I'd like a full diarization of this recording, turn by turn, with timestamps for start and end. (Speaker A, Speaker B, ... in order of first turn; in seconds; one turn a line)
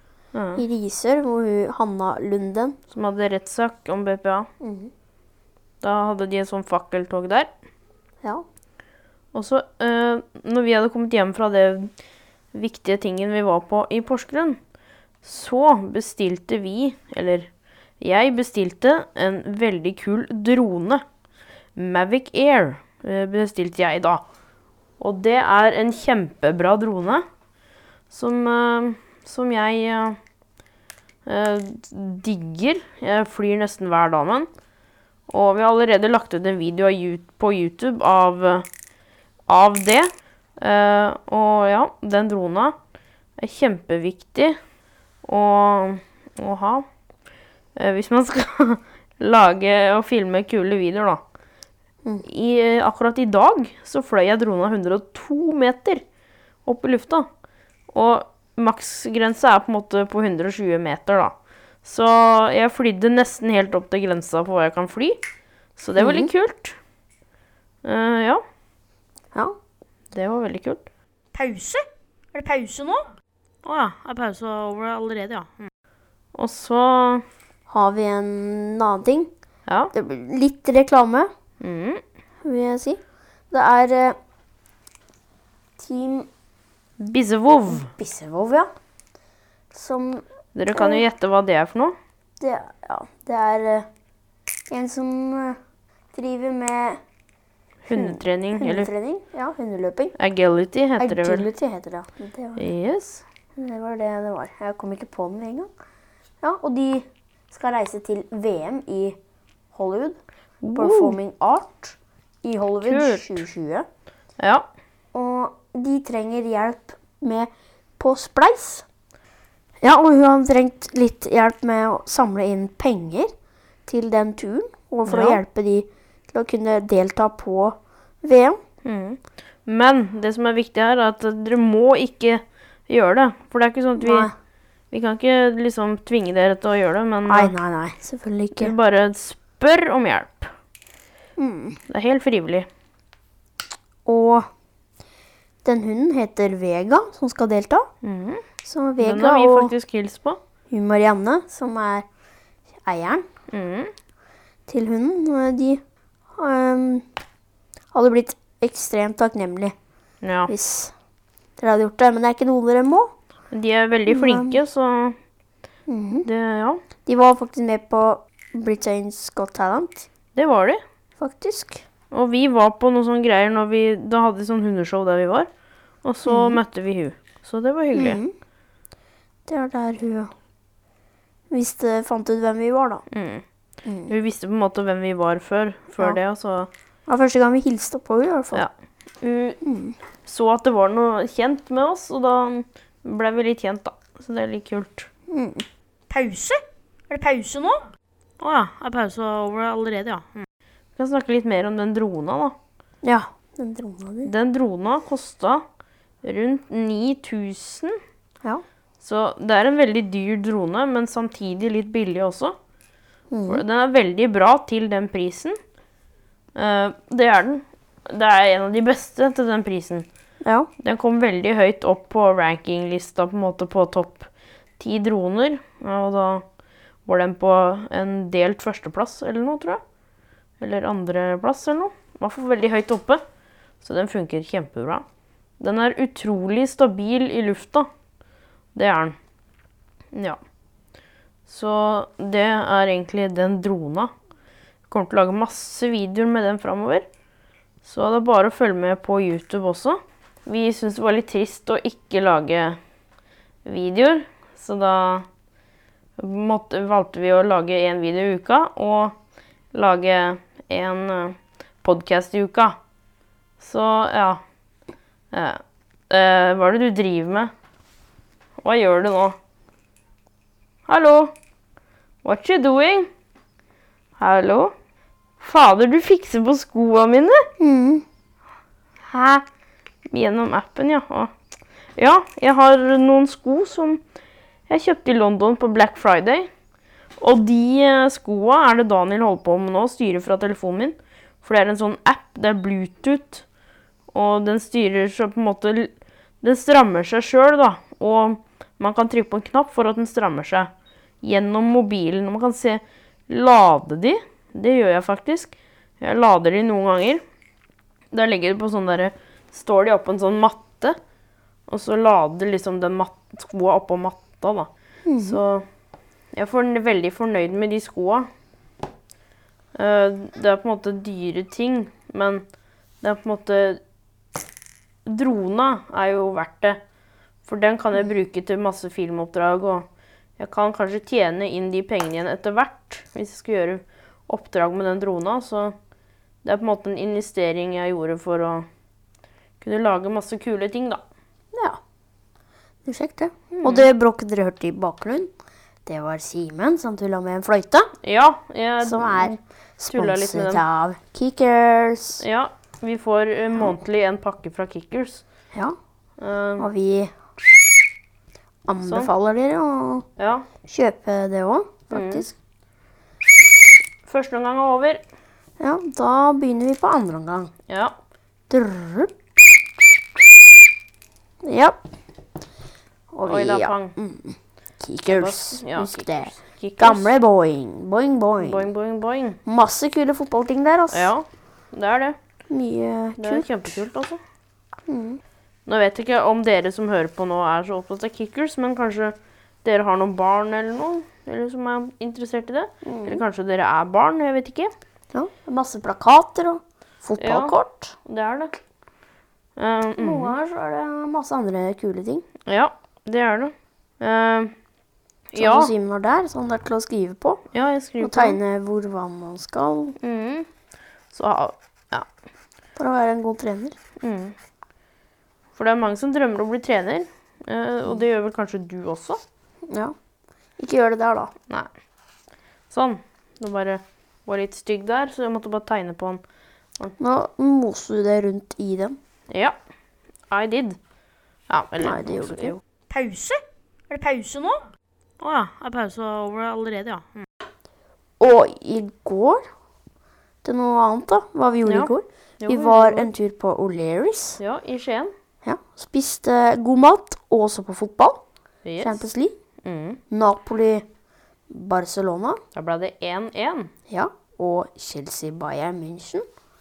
Speaker A: 0.3-0.6
Speaker B: 0.6-2.8
Speaker A: 2.9-4.5
Speaker B: 4.6-4.9
Speaker A: 5.8-7.5
Speaker A: 9.3-11.9
Speaker A: 12.5-14.6
Speaker A: 15.2-17.5
Speaker A: 18.0-21.0
Speaker A: 21.8-24.2
Speaker A: 25.0-27.2
Speaker A: 28.1-30.2
Speaker A: 31.3-34.5
Speaker A: 35.3-38.7
Speaker A: 39.5-42.8
Speaker A: 43.4-44.6
Speaker A: 45.2-46.9
Speaker A: 47.8-51.2
Speaker A: 52.3-56.0
Speaker A: 56.7-57.3
Speaker A: 57.9-65.2
Speaker A: 65.8-66.8
Speaker B: 66.0-66.3
Speaker A: 67.8-68.4
Speaker A: 70.1-70.8
Speaker C: 71.3-73.1
Speaker A: 73.6-75.7
Speaker A: 76.3-77.2
Speaker B: 77.7-79.3
Speaker A: 79.7-79.9
Speaker B: 79.9-81.3
Speaker A: 81.6-82.0
Speaker B: 82.4-83.0
Speaker B: 83.5-84.2
Speaker B: 85.8-86.3
Speaker A: 87.0-87.9
Speaker B: 87.7-88.7
Speaker B: 89.7-91.0
Speaker A: 90.5-91.9
Speaker B: 92.4-93.9
Speaker B: 94.7-95.6
Speaker B: 96.1-97.0
Speaker A: 97.8-98.9
Speaker B: 97.9-100.2
Speaker A: 100.2-101.5
Speaker B: 101.0-102.7
Speaker A: 102.6-103.2
Speaker B: 103.6-105.7
Speaker B: 106.4-109.2
Speaker B: 109.7-110.2
Speaker A: 110.6-111.2
Speaker B: 110.7-113.9
Speaker A: 112.8-113.5
Speaker A: 114.4-114.7
Speaker B: 115.1-118.8
Speaker B: 119.8-123.3
Speaker B: 123.9-128.6
Speaker A: 125.1-125.4
Speaker A: 128.8-134.3
Speaker B: 134.0-134.3
Speaker A: 134.9-137.6
Speaker B: 137.3-138.7
Speaker A: 138.6-140.5
Speaker B: 141.4-141.8
Speaker A: 141.9-142.7
Speaker B: 144.1-144.5
Speaker B: 145.6-147.9
Speaker A: 148.0-148.4
Speaker B: 148.6-149.7
Speaker A: 149.0-150.4
Speaker B: 150.7-152.1
Speaker B: 152.8-153.2
Speaker A: 153.5-153.9
Speaker B: 154.7-155.8
Speaker B: 156.4-157.1
Speaker B: 157.9-159.7
Speaker A: 160.2-160.5
Speaker B: 160.5-160.9
Speaker B: 161.6-163.1
Speaker A: 163.5-165.2
Speaker B: 164.1-164.6
Speaker B: 165.9-166.3
Speaker A: 166.2-166.8
Speaker B: 167.1-170.1
Speaker A: 170.3-170.8
Speaker B: 171.2-171.8
Speaker A: 172.1-175.5
Speaker A: 176.0-178.2
Speaker B: 176.3-176.6
Speaker B: 177.9-178.3
Speaker B: 179.5-180.3
Speaker B: 181.5-183.0
Speaker A: 183.1-183.4
Speaker B: 183.8-184.1
Speaker A: 184.1-186.7
Speaker B: 187.1-188.7
Speaker A: 189.2-189.6
Speaker B: 189.6-190.0
Speaker A: 190.2-195.1
Speaker B: 195.3-195.7
Speaker C: 196.1-197.9
Speaker A: 198.4-200.5
Speaker A: 201.0-202.6
Speaker B: 203.0-204.3
Speaker A: 204.3-205.6
Speaker A: 206.2-207.9
Speaker A: 209.0-212.6
Speaker B: 213.3-213.6
Speaker A: 213.5-215.6
Speaker A: 216.6-220.1
Speaker B: 220.4-220.7
Speaker A: 220.8-224.3
Speaker A: 224.8-226.4
Speaker A: 227.1-229.8
Speaker A: 230.6-233.2
Speaker A: 233.8-235.0
Speaker A: 235.6-237.9
Speaker A: 238.8-239.2
Speaker A: 240.1-240.4
Speaker A: 241.5-244.1
Speaker A: 244.9-247.1
Speaker A: 247.8-252.8
Speaker A: 253.7-255.3
Speaker A: 256.2-259.1
Speaker A: 259.7-262.8
Speaker A: 263.6-264.4
Speaker A: 265.3-267.5
Speaker A: 268.6-269.4
Speaker A: 270.9-271.3
Speaker A: 272.2-273.1
Speaker A: 274.2-274.7
Speaker A: 275.4-277.4
Speaker B: 277.6-278.0
Speaker A: 279.0-279.4
Speaker A: 280.1-281.3
Speaker A: 282.0-284.0
Speaker A: 284.7-286.5
Speaker A: 287.2-293.4
Speaker A: 294.1-295.9
Speaker A: 296.4-300.7
Speaker A: 301.2-307.2
Speaker A: 308.1-311.0
Speaker A: 311.7-315.6
Speaker B: 315.1-315.4
Speaker A: 316.3-318.3
Speaker A: 319.8-322.4
Speaker A: 323.0-323.8
Speaker A: 325.1-326.8
Speaker A: 327.4-329.9
Speaker A: 330.4-335.8
Speaker A: 336.4-338.7
Speaker A: 339.6-341.0
Speaker B: 341.5-341.8
Speaker B: 342.9-345.3
Speaker A: 343.6-343.9
Speaker B: 345.9-347.9
Speaker A: 348.0-349.4
Speaker B: 348.8-352.2
Speaker A: 349.9-350.6
Speaker A: 352.2-355.2
Speaker A: 356.2-356.7
Speaker B: 356.6-357.1
Speaker B: 358.7-360.1
Speaker A: 358.8-359.1
Speaker A: 360.2-360.5
Speaker B: 360.6-362.4
Speaker A: 361.9-362.3
Speaker A: 364.1-365.0
Speaker B: 365.6-367.5
Speaker A: 367.7-367.9
Speaker B: 368.5-369.1
Speaker B: 371.4-371.8
Speaker B: 373.1-378.7
Speaker A: 373.2-373.9
Speaker A: 375.1-377.1
Speaker A: 378.4-379.4
Speaker B: 379.5-381.1
Speaker A: 380.9-382.2
Speaker B: 382.5-383.7
Speaker A: 383.2-384.2
Speaker B: 384.9-385.2
Speaker A: 385.7-394.7
Speaker B: 392.8-393.2
Speaker B: 395.1-397.9
Speaker A: 397.2-398.5
Speaker A: 399.6-400.4
Speaker B: 400.0-402.2
Speaker A: 402.5-404.5
Speaker A: 405.3-405.7
Speaker B: 405.4-407.4
Speaker A: 407.5-408.4
Speaker B: 408.0-410.0
Speaker A: 410.0-410.5
Speaker A: 411.1-412.1
Speaker B: 412.8-413.8
Speaker A: 414.0-414.4
Speaker A: 415.6-419.2
Speaker B: 420.6-421.3
Speaker A: 422.7-426.2
Speaker B: 427.0-429.0
Speaker A: 429.3-429.6
Speaker A: 430.3-430.8
Speaker A: 431.5-432.6
Speaker B: 431.8-432.6
Speaker C: 432.9-434.7
Speaker A: 435.2-437.3
Speaker B: 438.2-439.4
Speaker B: 440.4-444.4
Speaker A: 441.6-443.1
Speaker A: 444.4-445.1
Speaker B: 445.4-448.2
Speaker A: 448.6-449.1
Speaker B: 448.8-449.3
Speaker A: 449.6-450.0
Speaker B: 450.1-450.9
Speaker B: 451.5-452.4
Speaker A: 452.6-453.7
Speaker B: 453.9-456.2